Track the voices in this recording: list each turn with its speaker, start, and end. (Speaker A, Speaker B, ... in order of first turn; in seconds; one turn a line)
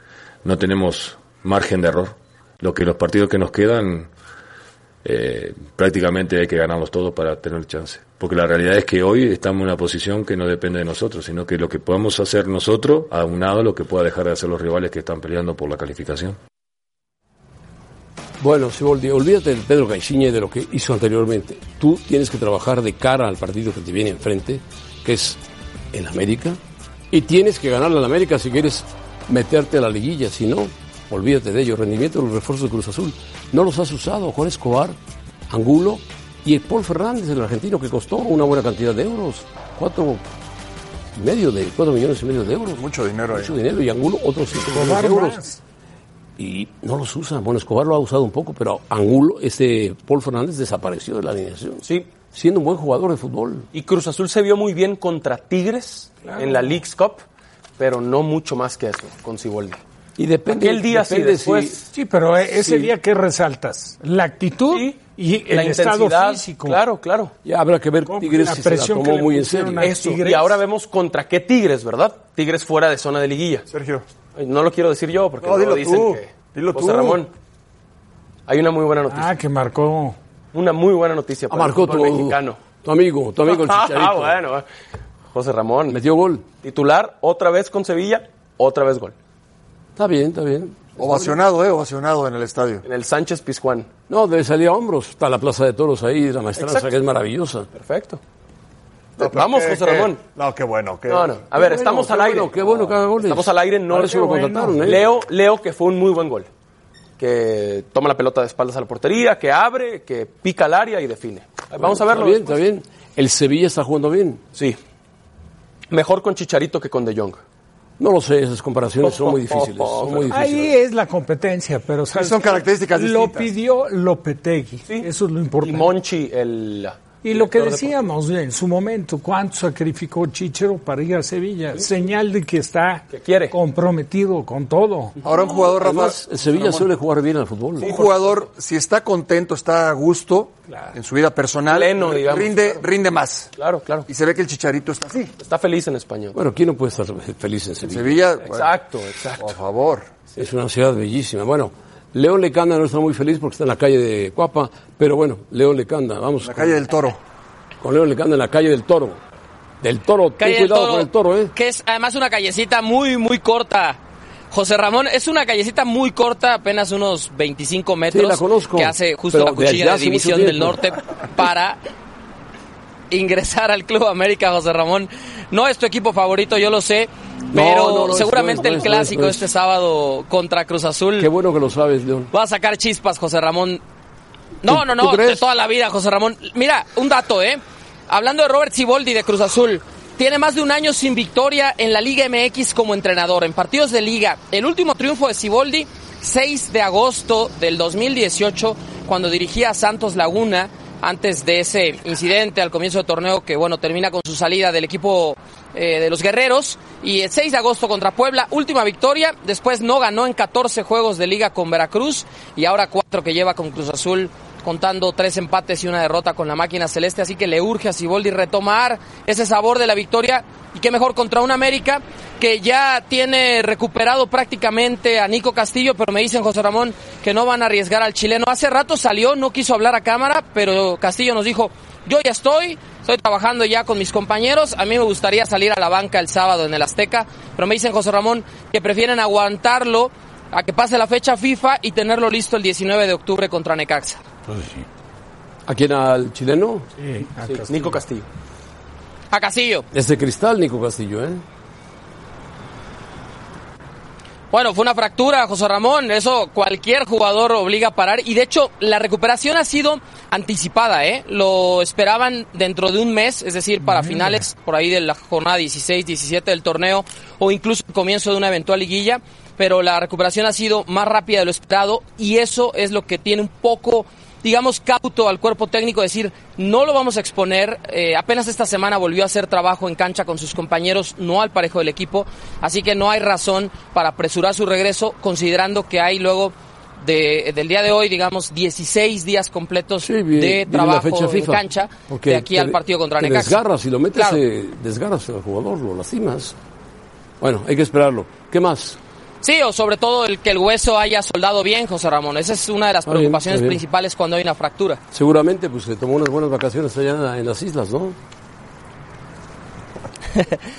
Speaker A: 0.4-4.1
Speaker A: 5.0-16.4
Speaker B: 18.4-25.4
Speaker B: 25.9-26.6
Speaker B: 27.1-35.0
Speaker B: 35.5-40.2
Speaker B: 41.1-45.4
Speaker C: 42.7-43.6
Speaker D: 44.7-45.6
Speaker B: 46.4-53.7
Speaker E: 51.8-52.1
Speaker E: 53.7-57.2
Speaker D: 56.2-56.8
Speaker E: 57.8-59.8
Speaker B: 60.2-61.8
Speaker E: 60.5-61.9
Speaker D: 61.9-66.8
Speaker B: 62.6-62.9
Speaker E: 64.7-67.3
Speaker B: 67.4-69.9
Speaker D: 68.0-70.6
Speaker E: 69.8-73.7
Speaker C: 73.7-74.0
Speaker E: 74.3-77.3
Speaker C: 75.4-77.2
Speaker E: 78.5-79.3
Speaker D: 79.1-80.2
Speaker E: 80.5-82.6
Speaker B: 81.5-84.4
Speaker E: 83.4-84.6
Speaker E: 85.3-86.0
Speaker B: 85.9-86.5
Speaker E: 86.6-89.1
Speaker B: 90.0-91.3
Speaker C: 91.0-92.8
Speaker E: 92.8-93.9
Speaker B: 94.1-97.7
Speaker E: 96.5-96.9
Speaker E: 97.7-98.2
Speaker C: 99.2-101.4
Speaker E: 99.2-100.2
Speaker E: 101.1-106.5
Speaker B: 101.5-105.0
Speaker D: 103.9-104.8
Speaker E: 107.2-112.6
Speaker B: 111.8-114.4
Speaker E: 115.9-117.4
Speaker B: 118.0-120.7
Speaker E: 119.0-120.4
Speaker D: 120.3-125.9
Speaker C: 122.1-123.5
Speaker E: 125.6-127.9
Speaker D: 127.2-135.2
Speaker E: 133.1-133.5
Speaker C: 135.2-136.9
Speaker B: 135.8-138.0
Speaker C: 137.8-143.5
Speaker E: 137.8-138.5
Speaker E: 141.7-142.8
Speaker E: 143.6-144.1
Speaker C: 144.1-145.3
Speaker E: 145.4-146.4
Speaker B: 146.3-148.2
Speaker C: 147.8-148.7
Speaker E: 148.4-149.5
Speaker C: 149.4-150.1
Speaker B: 150.3-156.8
Speaker C: 156.4-157.2
Speaker B: 157.8-159.2
Speaker B: 159.8-161.5
Speaker F: 160.4-164.0
Speaker F: 164.5-171.8
Speaker B: 168.1-170.9
Speaker F: 173.1-181.3
Speaker B: 177.5-179.5
Speaker B: 181.2-182.3
Speaker F: 182.3-183.8
Speaker F: 184.6-244.2
Speaker B: 184.7-185.4
Speaker B: 245.7-246.9
Speaker D: 247.0-248.0
Speaker E: 247.4-248.2
Speaker F: 249.3-249.8
Speaker B: 249.9-251.4
Speaker F: 254.5-293.6
Speaker D: 263.9-264.4
Speaker B: 290.0-296.5
Speaker F: 294.1-294.4
Speaker B: 297.4-299.0
Speaker F: 299.4-305.0
Speaker B: 303.1-303.8
Speaker B: 305.1-308.2